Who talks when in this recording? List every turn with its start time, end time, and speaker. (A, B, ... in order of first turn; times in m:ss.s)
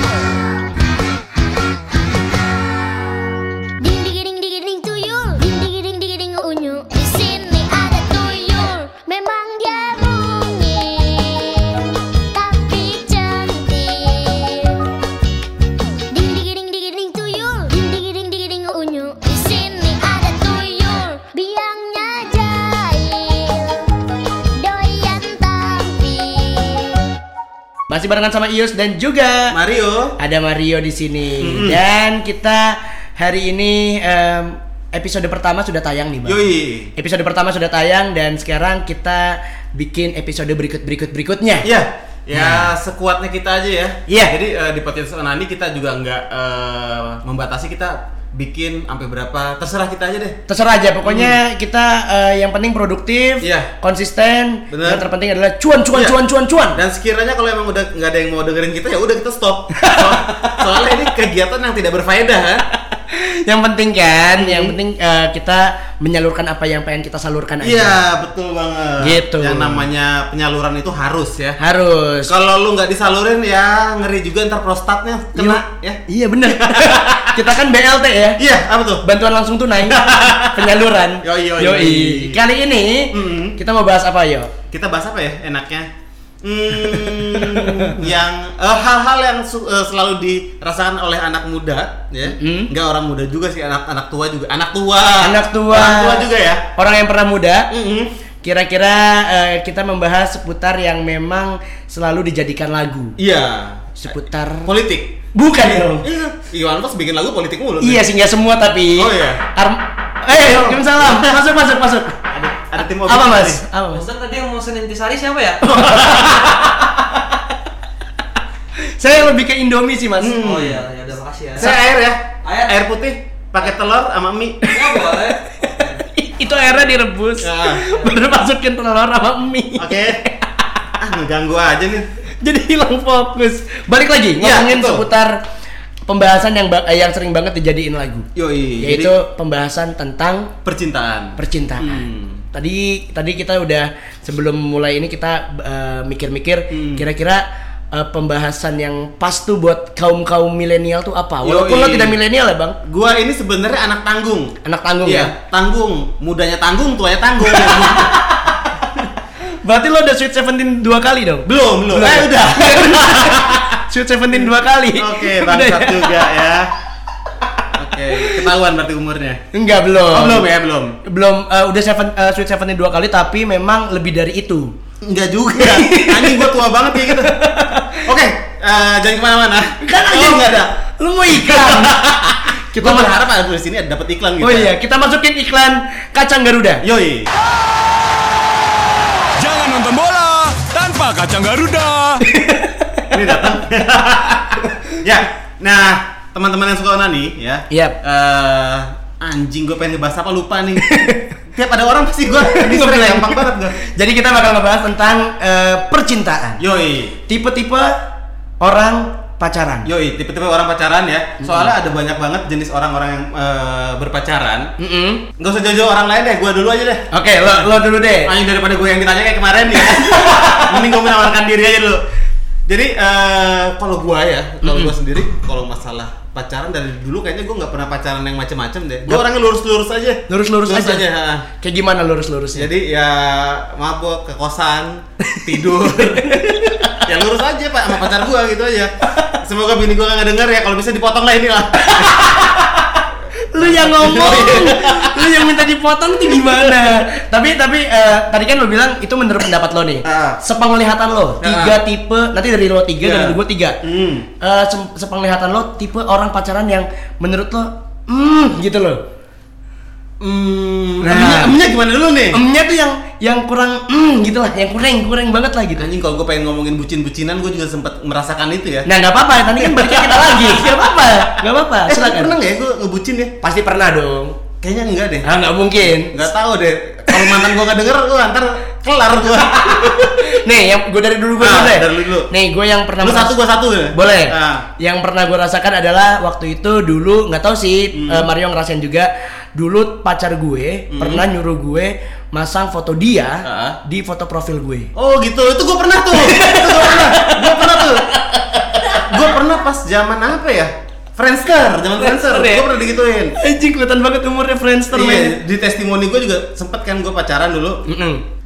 0:02.6-0:03.2 A
0:03.8-0:15.0 A
0:16.1-0:24.0 A
0:24.6-0:27.1 A
0:27.9-0:29.6 B
0:29.5-0:30.2 C
0:30.2-0:36.4 B
0:31.4-0:31.8 C
0:36.2-0:36.9 C
0:37.0-0:41.7 B
0:41.6-0:50.4 C
0:42.3-0:42.7 B
0:44.1-0:44.3 B
0:50.5-0:56.8 B
0:51.0-0:51.4 C
0:53.4-0:53.7 C
0:54.7-0:55.1 C
0:55.9-0:56.2 C
0:56.7-1:02.6 C
0:59.8-1:00.7 B
1:03.1-1:08.0 B
1:04.4-1:04.8 C
1:07.6-1:11.6 C
1:09.0-1:09.8 B
1:11.6-1:12.3 B
1:12.3-1:17.5 C
1:15.4-1:18.4 B
1:18.4-1:19.0 C
1:19.0-1:24.5 B
1:19.9-1:22.4 C
1:23.1-1:23.6 C
1:24.7-1:25.9 C
1:26.4-1:36.6 C
1:27.0-1:28.0 B
1:32.3-1:32.7 B
1:35.2-1:37.7 B
1:37.7-1:38.1 C
1:38.4-1:43.2 B
1:43.2-1:44.1 C
1:44.0-1:44.7 B
1:44.6-1:45.2 C
1:45.3-1:46.0 B
1:46.0-1:48.0 C
1:47.8-1:52.2 B
1:49.0-1:49.4 C
1:50.8-1:51.3 C
1:52.5-1:53.6 C
1:53.1-1:54.0 B
1:53.9-1:55.6 D
1:55.6-1:56.8 B
1:55.9-1:56.3 C
1:59.0-2:00.4 B
2:00.2-2:00.8 C
2:00.4-2:01.8 D
2:01.6-2:04.8 C
2:02.4-2:02.8 D
2:04.7-2:06.0 D
2:05.6-2:10.5 B
2:07.4-2:07.8 C
2:09.8-2:10.2 C
2:11.0-2:12.1 C
2:12.4-2:15.4 B
2:14.4-2:15.1 C
2:16.1-2:18.3 B
2:18.4-2:19.2 C
2:18.8-2:20.5 B
2:20.6-2:22.4 C
2:21.4-2:32.8 B
2:26.7-2:27.1 C
2:31.4-2:32.2 C
2:32.8-2:38.2 C
2:34.6-2:35.3 B
2:37.5-2:38.5 B
2:39.6-2:46.3 B
2:41.4-2:43.8 C
2:44.4-2:46.7 C
2:47.7-2:49.4 C
2:48.1-2:48.4 B
2:49.5-2:50.5 B
2:50.1-2:51.0 C
2:51.0-2:54.7 B
2:55.0-2:57.4 C
2:55.6-2:56.5 B
2:57.0-2:58.0 B
2:58.0-3:00.7 C
2:59.8-3:03.2 B
3:01.3-3:04.7 C
3:04.4-3:06.8 B
3:06.8-3:07.3 C
3:09.4-3:12.2 E
3:12.3-3:13.2 B
3:13.1-3:23.8 C
3:17.7-3:18.0 B
3:20.8-3:21.3 B
3:22.4-3:26.6 B
3:26.6-3:27.2 C
3:27.3-3:28.0 B
3:28.6-3:29.9 B
3:29.8-3:34.7 C
3:34.8-3:35.2 B
3:35.4-3:42.0 C
3:37.1-3:38.3 B
3:40.0-3:40.7 B
3:42.7-3:51.5 C
3:44.6-3:44.9 B
3:50.3-3:51.0 B
3:51.6-3:52.7 B
3:52.6-4:02.4 C
3:55.3-3:57.1 B
4:01.9-4:02.8 B
4:03.5-4:13.8 B
4:03.6-4:05.4 C
4:10.0-4:10.4 C
4:11.4-4:11.8 C
4:13.0-4:14.3 C
4:14.4-4:19.0 B
4:20.2-4:22.4 C
4:21.0-4:21.6 B
4:22.3-4:25.8 B
4:25.8-4:28.9 C
4:28.9-4:32.3 B
4:29.5-4:31.2 C
4:31.9-4:33.3 C
4:33.4-4:34.4 B
4:34.6-4:35.3 C
4:35.2-4:36.2 B
4:35.9-4:40.2 C
4:39.8-4:43.4 B
4:41.4-4:42.3 C
4:43.0-4:44.7 C
4:43.9-4:54.9 B
4:47.9-4:48.3 C
4:50.9-4:51.2 C
4:53.4-4:53.8 C
4:55.0-4:58.1 C
4:56.2-4:59.1 B
4:58.8-5:03.4 C
5:02.0-5:02.7 B
5:03.4-5:05.4 B
5:04.9-5:07.8 C
5:07.9-5:08.2 B